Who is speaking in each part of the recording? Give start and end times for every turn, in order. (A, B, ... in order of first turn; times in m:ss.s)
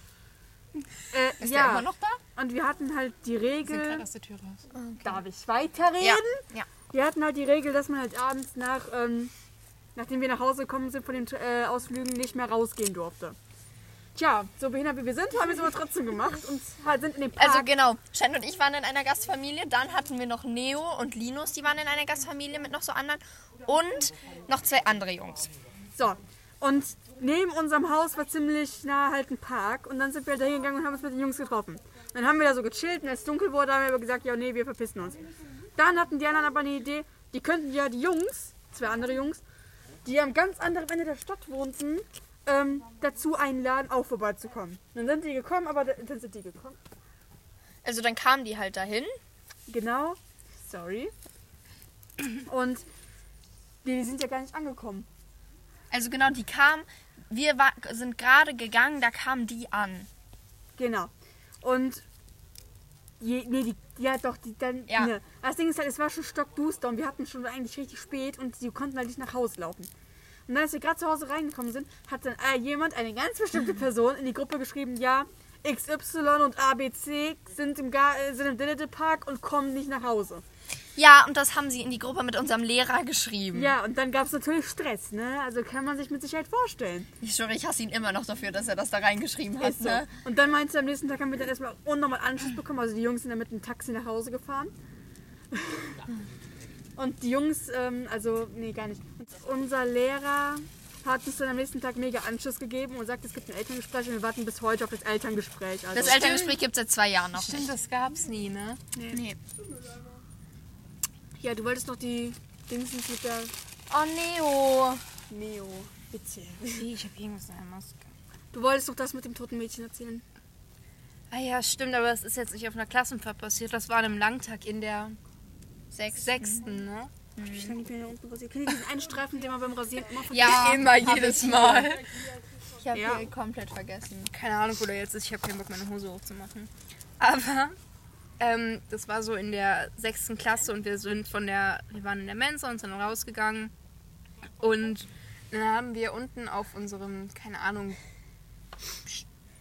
0:01.1-0:04.0 A
0:01.4-0:02.2 B
0:03.7-0:04.6 C
0:04.7-0:05.2 B
0:05.0-0:09.3 A
0:06.0-0:06.7 B
0:10.0-0:13.4 A
0:14.1-0:17.7 A
0:17.4-0:25.5 B
0:26.0-0:35.2 A
0:35.7-0:39.4 A
0:40.0-0:46.8 A
0:47.8-0:49.1 B
0:49.7-0:51.1 A
0:52.4-0:52.8 A
0:53.8-0:55.1 A
0:55.9-1:00.1 B
1:00.8-1:01.1 A
1:01.6-1:02.0 A
1:03.2-1:09.9 A
1:04.9-1:05.1 B
1:10.5-1:20.4 A
1:21.0-1:23.7 B
1:23.5-1:27.1 A
1:27.2-1:30.1 B
1:29.6-1:34.7 A
1:35.5-1:36.0 A
1:37.0-1:46.3 A
1:45.9-1:47.7 B
1:46.2-1:46.6 C
1:47.3-1:48.8 C
1:48.9-1:49.2 A
1:49.1-1:49.4 B
1:51.4-1:53.5 A
1:53.9-1:55.0 B
1:55.3-1:56.8 A
1:56.7-1:58.0 C
1:58.5-2:00.2 A
2:01.3-2:05.2 C
2:05.9-2:06.6 B
2:06.1-2:07.1 C
2:07.4-2:07.8 B
2:07.5-2:11.9 A
2:10.3-2:11.2 B
2:10.3-2:12.2 C
2:12.8-2:14.3 B
2:12.9-2:13.2 A
2:14.3-2:17.7 C
2:18.4-2:23.7 C
2:24.6-2:28.0 C